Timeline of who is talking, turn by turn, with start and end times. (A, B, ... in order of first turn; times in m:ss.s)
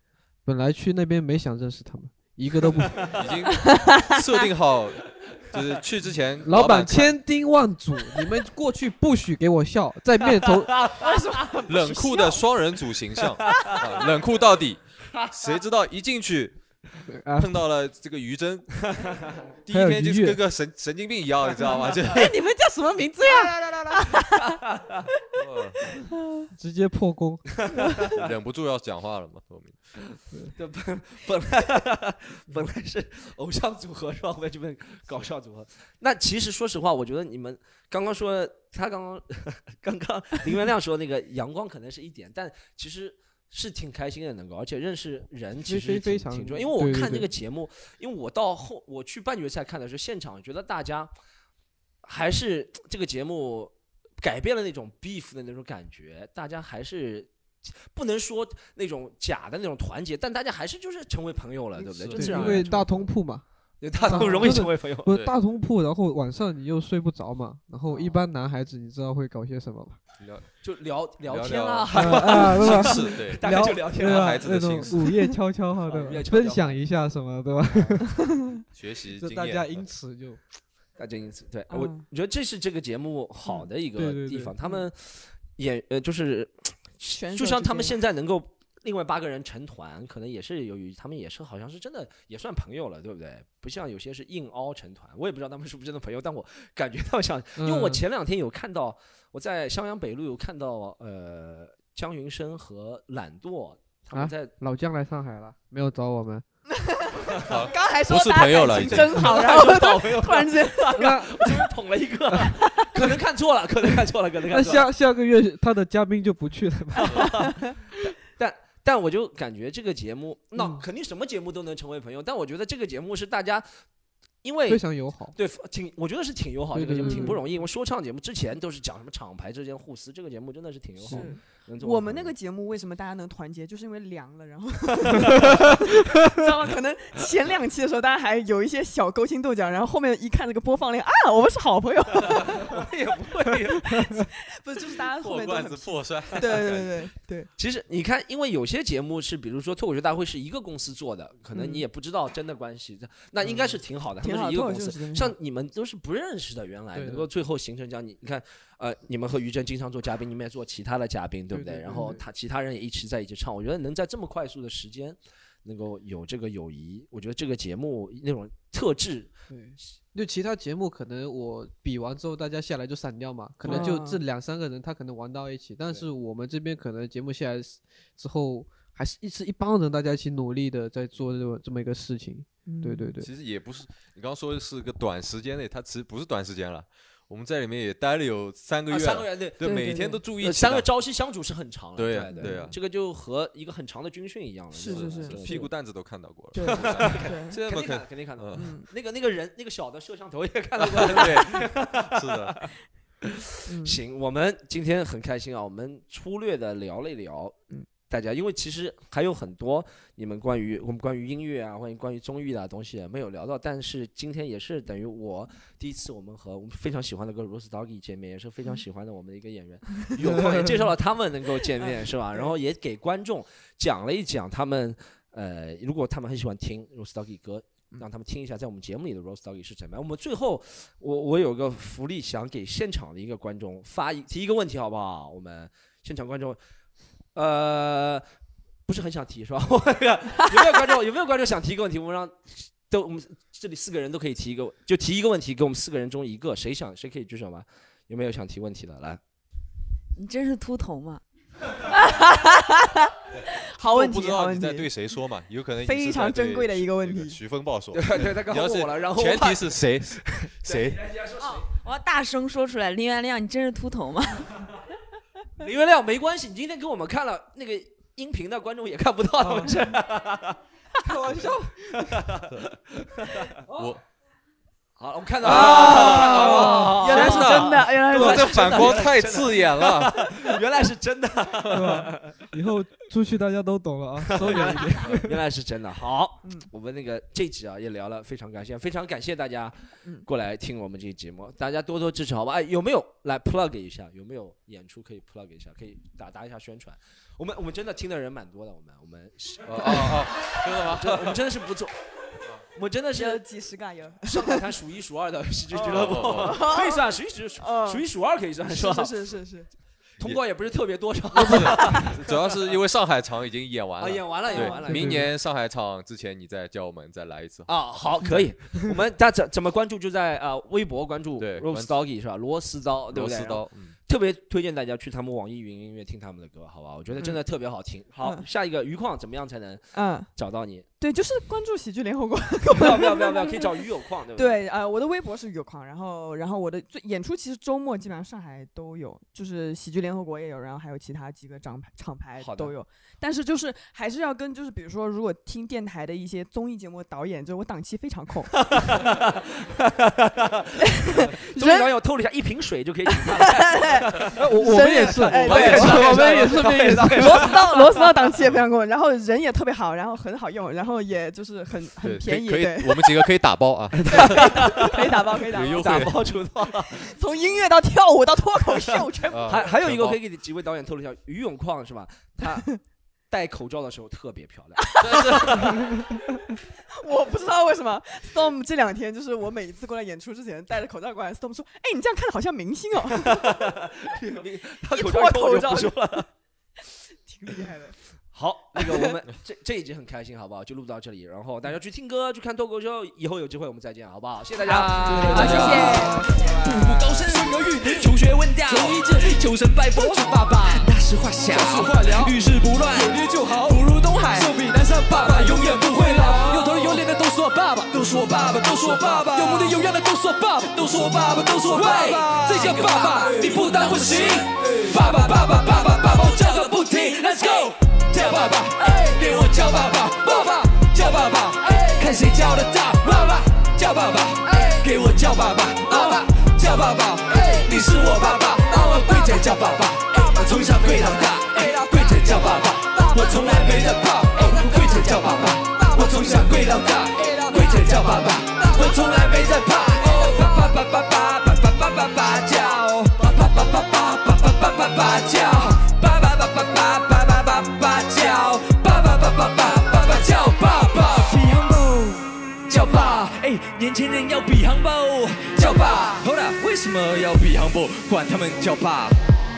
0:00.4-0:03.0 A
0:03.0-0:03.3 B
0:03.1-0:07.2 C
0:06.4-0:10.7 A
0:10.7-0:11.2 B
0:11.0-0:12.4 D
0:11.7-0:16.6 C
0:13.2-0:13.8 B
0:17.1-0:17.5 A
0:17.4-0:19.1 C
0:19.6-0:22.3 C
0:19.7-0:20.4 A
0:22.1-0:23.4 E
0:22.4-0:23.6 D
0:23.3-0:24.0 C
0:25.3-0:25.9 C
0:26.5-0:27.4 A
0:27.6-0:28.2 B
0:28.2-0:29.9 C
0:30.5-0:51.1 B
0:45.6-0:47.3 A
0:52.0-1:03.1 B
1:01.8-1:02.7 C
1:02.2-1:03.4 A
1:03.8-1:05.1 B
1:04.1-1:10.0 A
1:05.1-1:05.4 C
1:07.9-1:08.2 B
1:10.2-1:10.5 C
1:10.6-1:15.0 B
1:11.2-1:15.0 C
1:11.9-1:18.1 A
1:15.8-1:16.8 B
1:17.7-1:18.0 B
1:18.2-1:18.5 D
1:18.7-1:19.8 C
1:19.2-1:20.4 A
1:21.0-1:44.5 B
1:21.7-1:22.0 D
1:24.0-1:24.5 A
1:27.1-1:28.0 D
1:37.6-1:38.0 A
1:44.1-1:46.4 A
1:46.9-1:51.7 D
1:47.3-1:47.6 B
1:47.4-1:49.4 C
1:48.7-1:54.9 B
1:51.0-1:51.3 A
1:52.4-1:53.0 D
1:54.5-1:57.3 A
1:57.0-1:57.8 D
1:57.1-1:57.5 B
1:58.1-2:03.8 B
2:00.6-2:00.8 A
2:04.4-2:12.3 B
2:04.7-2:05.4 A
2:06.7-2:07.4 A
2:07.0-2:07.4 D
2:11.0-2:22.8 D
2:22.2-2:24.1 B
2:23.9-2:27.5 D
2:25.2-2:27.0 C
2:27.6-2:49.9 B
2:31.5-2:31.8 D
2:33.4-2:33.7 A
2:34.2-2:35.3 D
2:36.9-2:37.3 A
2:41.5-2:42.2 A
2:49.5-3:03.3 A
2:53.6-2:54.2 D
3:02.6-3:03.1 D
3:03.2-3:10.9 C
3:08.9-3:09.8 B
3:09.6-3:10.2 D
3:10.3-3:15.7 B
3:12.0-3:12.8 C
3:12.3-3:12.7 D
3:14.7-3:15.6 D
3:14.8-3:18.7 C
3:16.5-3:17.6 D
3:16.6-3:22.7 B
3:18.5-3:18.9 D
3:20.8-3:22.6 C
3:21.1-3:21.4 D
3:23.7-3:24.0 D
3:23.8-3:56.6 B
3:40.4-3:40.7 A
3:41.8-3:42.6 D
3:57.3-3:58.2 B
3:58.9-4:09.2 B
4:10.2-4:11.2 E
4:11.9-4:14.9 D
4:13.4-4:21.1 C
4:15.8-4:17.4 D
4:17.9-4:19.8 B
4:20.4-4:21.6 B
4:21.7-4:24.6 E
4:25.6-4:30.6 B
4:31.0-4:32.0 A
4:31.2-4:31.5 D
4:31.3-4:33.4 B
4:33.7-4:34.0 C
4:35.0-4:42.3 B
4:35.4-4:39.1 D
4:35.4-4:40.3 C
4:41.7-4:45.4 A
4:44.3-5:02.0 B
4:46.4-4:46.7 D
4:59.7-5:01.4 C
5:02.7-5:03.4 B
5:03.1-5:04.6 D
5:04.2-5:09.2 B
5:05.7-5:08.0 D
5:05.8-5:06.6 C
5:08.6-5:09.7 D
5:10.2-5:12.7 B
5:11.4-5:12.0 D
5:11.5-5:18.5 C
5:14.0-5:15.2 B
5:14.4-5:15.2 D
5:14.9-5:15.2 A
5:17.7-5:30.9 B
5:21.4-5:21.9 C
5:23.1-5:23.9 C
5:29.9-5:30.3 D
5:31.0-5:33.8 D
5:32.7-5:34.6 B
5:34.4-5:49.0 D
5:42.4-5:42.7 B
5:48.6-5:58.3 B
5:50.8-5:51.9 D
5:53.1-5:56.6 D
5:54.6-5:57.5 A
5:55.4-5:56.5 C
5:57.2-6:03.3 D
6:02.0-6:04.6 C
6:03.9-6:07.1 B
6:04.1-6:06.1 D
6:05.5-6:06.2 C
6:06.8-6:09.7 D
6:09.3-6:10.2 C
6:09.5-6:12.8 B
6:13.3-6:15.8 B
6:14.9-6:23.6 D
6:15.0-6:15.8 C
6:23.2-6:26.3 B
6:24.9-6:26.2 D
6:27.2-6:28.0 D
6:28.3-6:36.1 B
6:28.8-6:29.0 D
6:34.6-7:39.2 F
6:34.9-6:36.2 E
6:35.3-6:37.2 D
6:41.5-6:42.3 E
6:44.1-6:44.5 E
6:46.6-6:47.0 E
6:49.2-6:49.7 E
6:51.9-6:52.5 E